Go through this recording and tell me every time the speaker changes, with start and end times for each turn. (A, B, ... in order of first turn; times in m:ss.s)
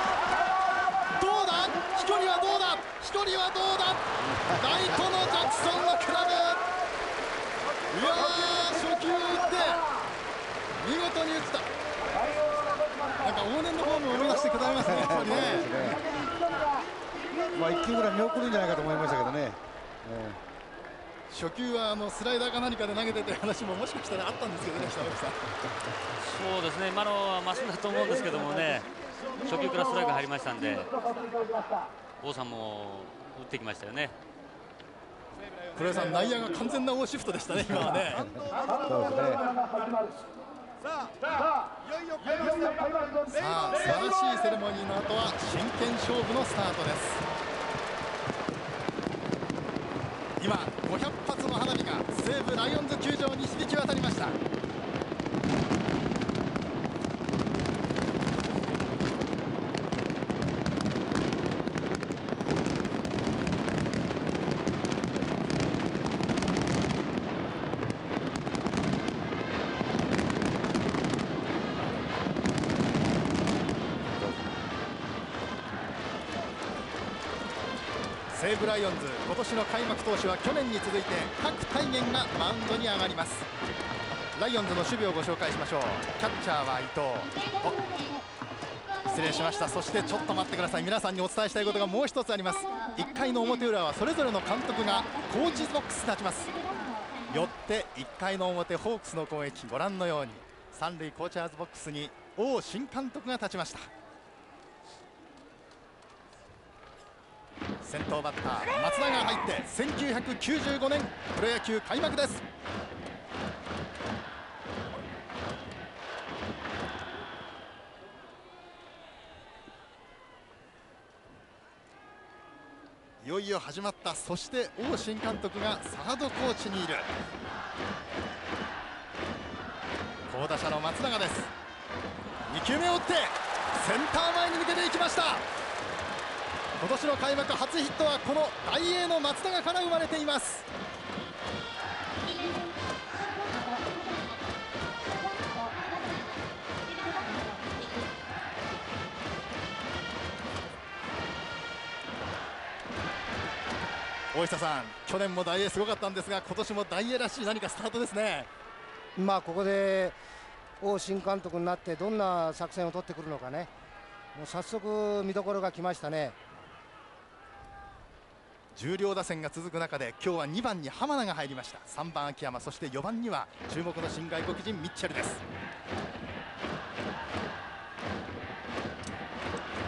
0:01.1-0:06.7 A
0:04.5-0:05.0 B
0:07.9-0:09.9 A
0:10.8-0:11.7 A
0:13.2-0:16.0 A
0:14.8-0:16.0 B
0:17.5-0:20.4 B
0:21.3-0:25.4 A
0:26.2-0:28.9 C
0:29.4-0:31.0 C
0:32.2-0:34.1 C
0:35.7-0:38.3 A
0:37.7-0:39.5 B
0:43.3-0:47.2 A
0:50.4-0:54.4 A
1:14.1-1:14.5 B
1:18.3-1:23.5 A
1:24.3-1:27.8 A
1:29.0-1:36.6 A
1:37.3-1:43.9 A
1:47.8-1:52.4 A
2:03.2-2:07.1 A
2:10.3-2:11.5 A
2:12.5-2:15.4 A
2:16.8-2:20.6 A
2:34.3-2:38.5 A
2:39.2-2:40.2 D
2:40.8-2:43.7 D
2:44.3-2:46.4 D
2:48.7-2:55.4 A